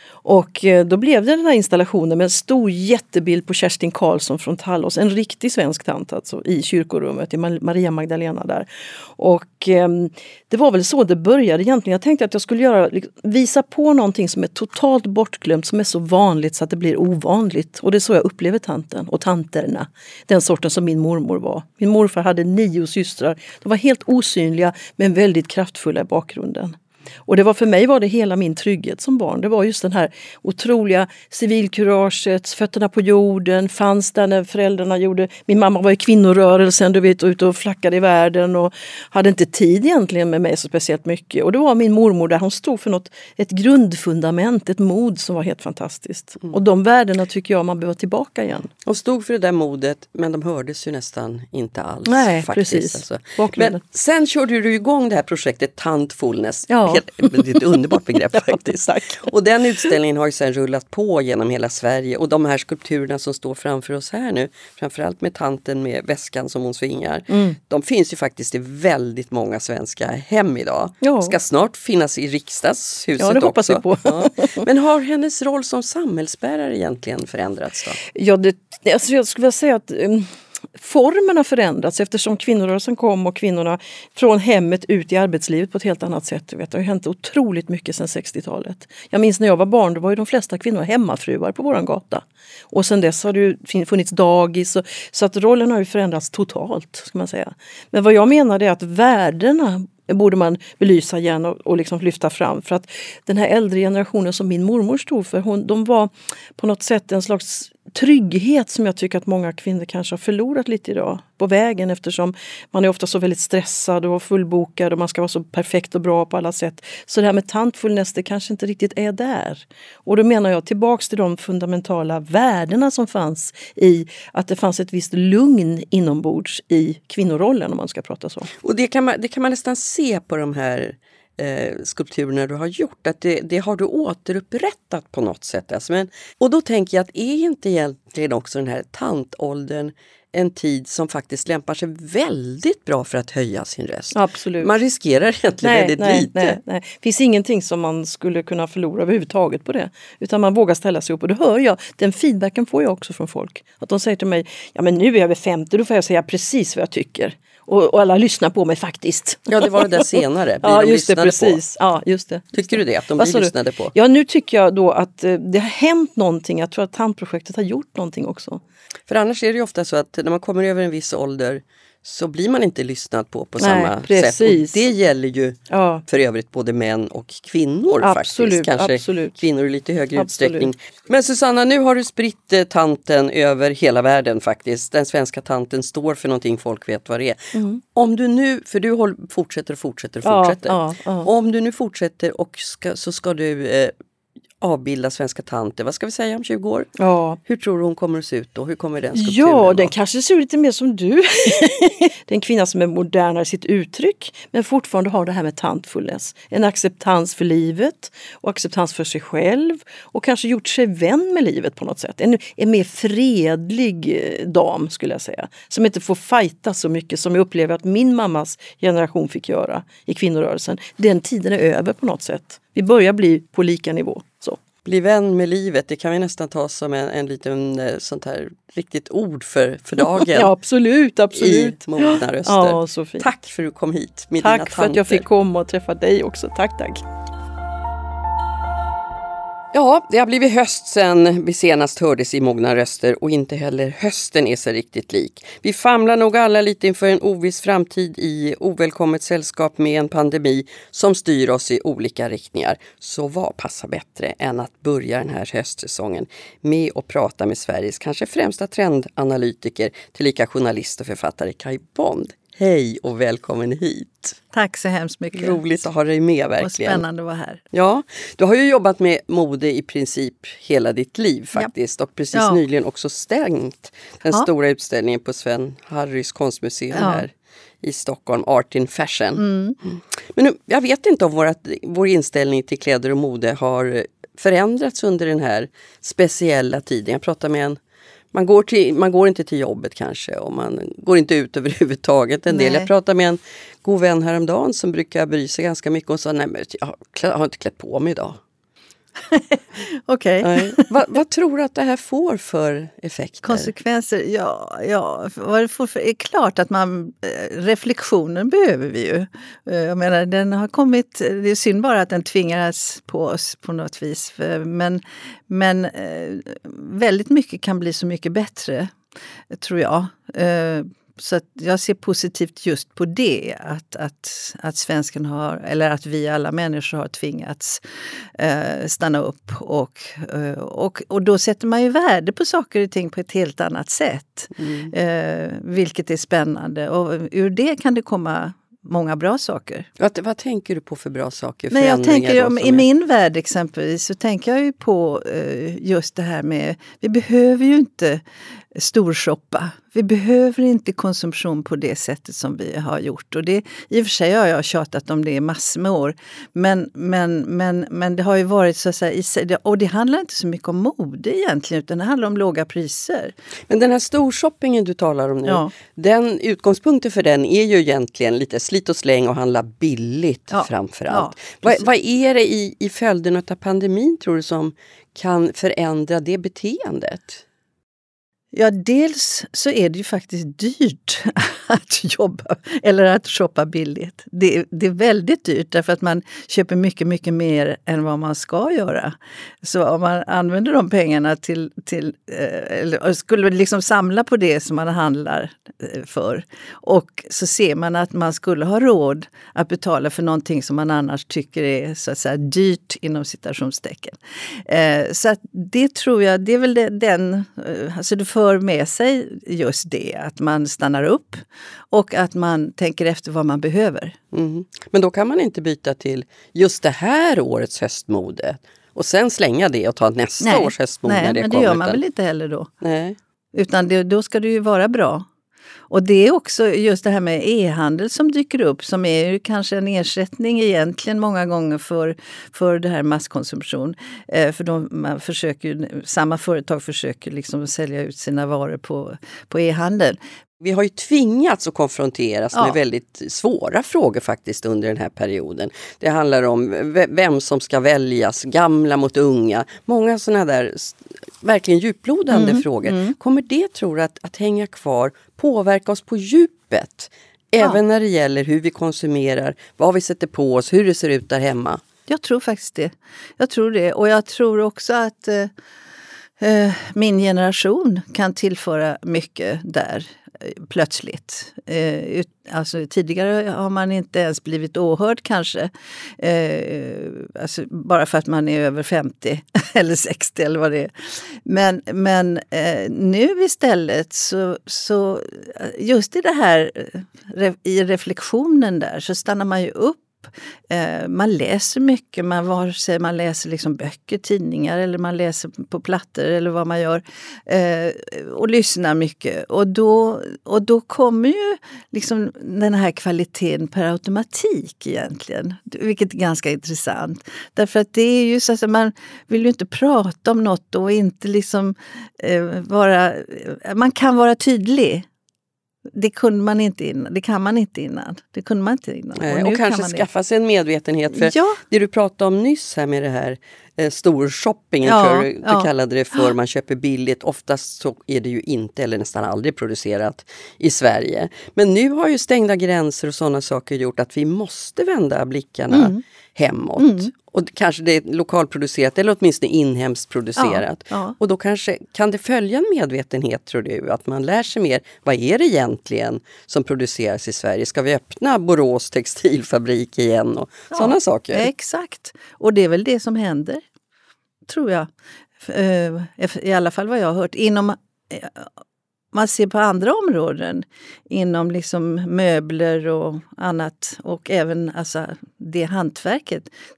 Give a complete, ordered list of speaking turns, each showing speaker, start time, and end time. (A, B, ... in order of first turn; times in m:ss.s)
0:00.2-0:26.8 A
0:27.3-0:48.7 A
0:48.8-1:18.0 B
0:52.0-0:53.8 A
0:56.7-0:57.6 A
0:58.3-0:59.3 A
1:07.3-1:07.6 A
1:11.0-1:11.3 A
1:13.2-1:14.7 A
1:18.0-2:08.5 A
2:08.6-2:26.6 B
2:24.1-2:24.7 A
2:25.6-2:40.1 A
2:39.5-2:41.6 B
2:40.6-2:48.6 A
2:42.5-2:43.9 B
2:49.1-3:07.4 B
2:53.6-2:54.8 A
2:55.7-2:56.0 A
2:58.0-2:59.4 A
3:00.2-3:00.7 A
3:07.5-3:07.8 A
3:07.9-3:13.9 B
3:10.2-3:11.3 A
3:14.6-3:16.9 B
3:17.0-3:17.4 A
3:17.4-3:19.9 B
3:19.1-3:44.6 A
3:44.8-3:50.5 B
3:50.3-3:53.3 A
3:51.3-3:55.2 B
3:54.4-3:57.0 A
3:59.7-4:24.4 B
4:24.5-4:25.6 C
4:25.3-4:27.0 B
4:26.6-4:27.6 C
4:27.7-4:47.8 B
4:32.3-4:32.6 C
4:36.9-4:37.2 C
4:39.4-4:39.8 C
4:48.3-4:58.4 B
4:52.5-4:52.9 C
4:59.3-5:00.8 C
5:00.4-5:03.7 B
5:03.4-5:18.9 C
5:19.5-5:27.8 C
5:28.4-5:39.9 C
5:34.6-5:34.9 B
5:40.0-5:42.8 B
5:41.7-5:48.2 C
5:48.8-6:03.3 C
6:03.7-6:17.4 B
6:05.4-6:05.7 C
6:10.5-6:11.8 C
6:18.5-6:54.1 C
6:54.3-7:02.0 B
7:00.4-7:02.7 C
7:02.8-7:03.2 B
7:03.5-7:05.2 C
7:05.9-7:20.2 C
7:20.6-7:41.8 B
7:32.3-7:33.2 C
7:42.1-7:45.5 C
7:46.4-8:00.9 C
8:01.4-8:35.0 C
8:35.9-8:40.0 C
8:39.2-9:11.5 B
8:41.1-8:41.6 C
8:44.8-8:46.2 C
8:55.7-8:56.0 C
8:56.8-8:57.1 C
9:00.4-9:01.1 C
9:10.7-9:13.6 C
9:14.5-9:14.9 C
9:15.4-9:18.5 C
9:19.1-9:26.5 C